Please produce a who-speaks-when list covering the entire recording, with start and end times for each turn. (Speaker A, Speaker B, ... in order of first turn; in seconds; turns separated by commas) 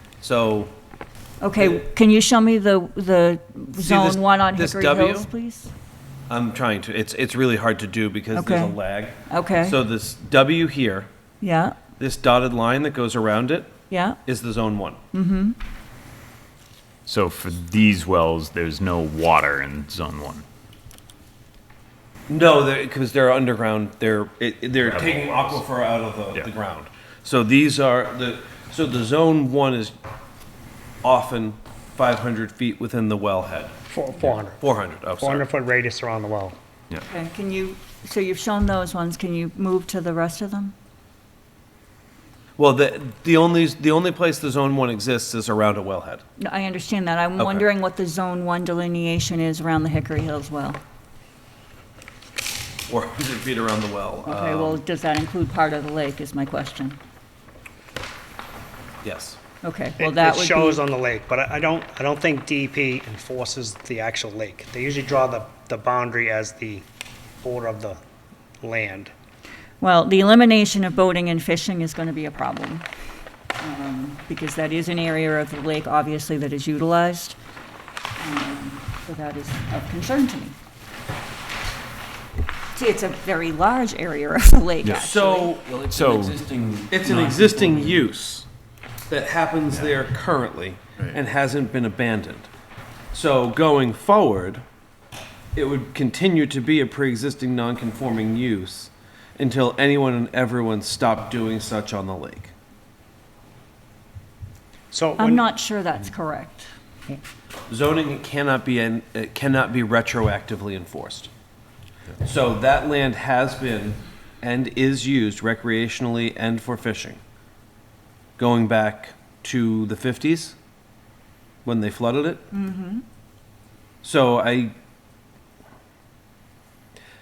Speaker A: 0.2-0.7, Speaker B: 1.4-5.7, Speaker A: 1.6-1.8, Speaker A: 3.8-5.3, Speaker A: 6.3-11.1, Speaker B: 8.3-8.8, Speaker B: 9.3-9.8, Speaker B: 11.4-11.8, Speaker A: 12.0-13.7, Speaker B: 13.9-14.2, Speaker A: 14.3-15.0, Speaker B: 15.1-15.6, Speaker C: 17.1-20.4, Speaker A: 22.3-30.0, Speaker C: 24.9-25.6, Speaker A: 31.0-33.7, Speaker D: 33.9-36.6, Speaker A: 34.6-35.5, Speaker B: 37.0-40.7, Speaker A: 42.6-46.2, Speaker B: 46.4-50.8, Speaker A: 47.4-47.7, Speaker A: 52.9-54.8, Speaker B: 54.2-57.0, Speaker A: 59.0-59.4, Speaker B: 59.6-60.8, Speaker D: 60.0-66.9, Speaker D: 67.4-68.0, Speaker D: 68.6-69.1, Speaker B: 69.8-72.9, Speaker B: 73.6-77.4, Speaker B: 78.2-80.5, Speaker B: 82.7-85.5, Speaker A: 84.8-85.8, Speaker E: 85.6-88.0, Speaker C: 85.9-86.4, Speaker A: 86.9-88.5, Speaker A: 89.1-92.5, Speaker A: 93.1-94.6, Speaker A: 95.5-102.5, Speaker D: 104.9-105.4, Speaker B: 105.2-106.7, Speaker A: 107.7-111.3, Speaker A: 112.2-117.2, Speaker A: 118.4-120.6, Speaker A: 121.7-122.5, Speaker B: 122.5-123.0, Speaker A: 124.0-124.7